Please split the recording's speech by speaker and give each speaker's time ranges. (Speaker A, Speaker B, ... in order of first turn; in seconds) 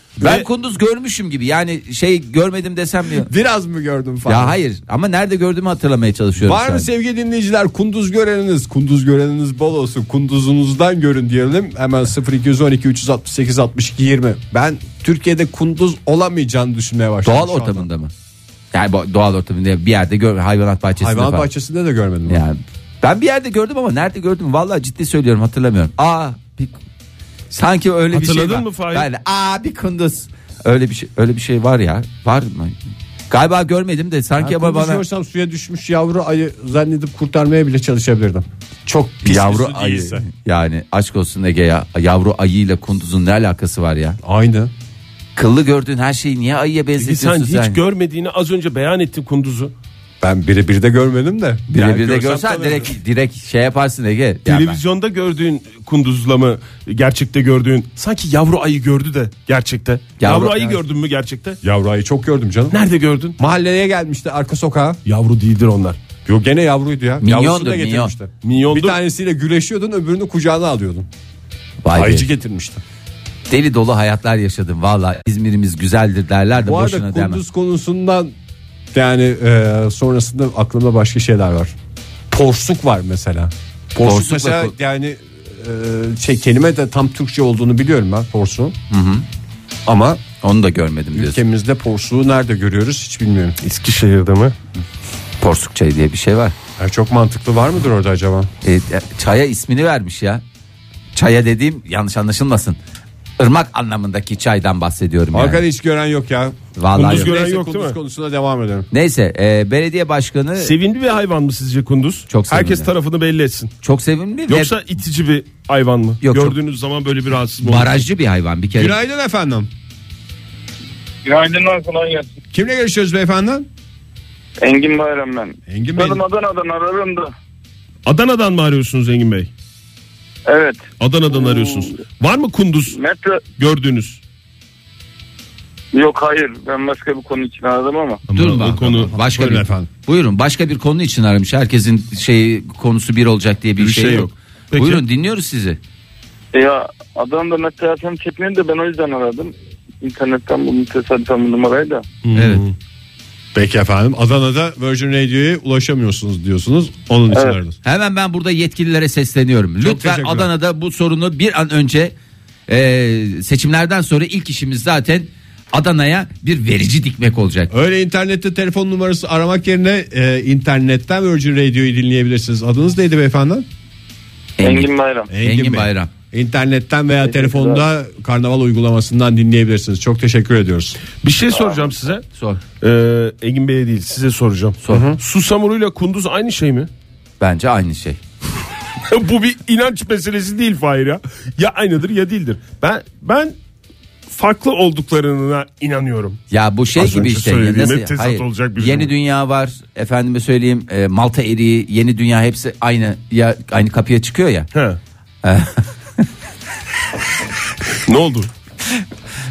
Speaker A: 0.2-0.5, 28.1-29.1, 47.0-49.7, 54.5-61.6, 62.7-63.4, 65.0-66.0, 68.4-69.0, 93.6-94.5, 106.9-108.0, 110.6-113.7, 114.5-118.0, 128.1-129.5, 131.0-133.0, 133.6-134.2, 138.3-139.1, 143.8-145.0, 152.2-152.7, 181.2-182.2, 182.8-186.9, 189.1-193.5, 194.3-196.4, 196.9-199.1, 204.7-205.0, 208.1-208.5
Speaker B: 0.2-3.3, 4.3-6.9, 17.2-18.1, 18.7-21.5, 22.3-26.8, 27.5-32.8, 33.3-35.0, 39.2-44.2, 45.4-47.8, 51.7-54.8, 60.2-60.8, 67.2-68.1, 71.8-72.3, 73.5-77.4, 84.0-84.7, 88.9-89.2, 90.4-91.4, 95.4-96.5, 98.6-100.4, 101.1-102.8, 103.4-105.6, 106.8-107.3, 108.9-110.7, 112.3-112.9, 113.8-114.7, 116.2-116.6, 117.6-119.0, 138.3-145.8, 152.3-152.7, 157.8-162.1, 162.7-167.7, 174.6-176.1, 182.3-182.6, 184.8-185.1, 187.4-188.2, 196.5-204.7, 205.4-206.2
Speaker C: 3.2-4.6, 6.4-17.9, 21.0-22.4, 34.4-40.2, 44.2-44.7, 50.2-52.9, 61.6-62.8, 63.4-65.0, 66.2-71.1, 71.9-72.8, 76.6-78.3, 78.9-81.8, 82.3-88.8, 89.9-90.2, 91.1-93.6, 96.8-98.5, 105.3-108.9, 118.8-119.7, 122.5-123.7, 125.7-126.2, 138.7-139.9, 153.5-157.8, 159.8-160.5, 167.7-173.7, 175.3-181.0, 184.9-185.2
Speaker D: 121.2-122.3, 124.6-127.3, 130.5-131.9, 132.9-133.4, 135.9-138.2, 146.5-152.1, 157.3-157.6, 174.6-175.3, 177.2-177.8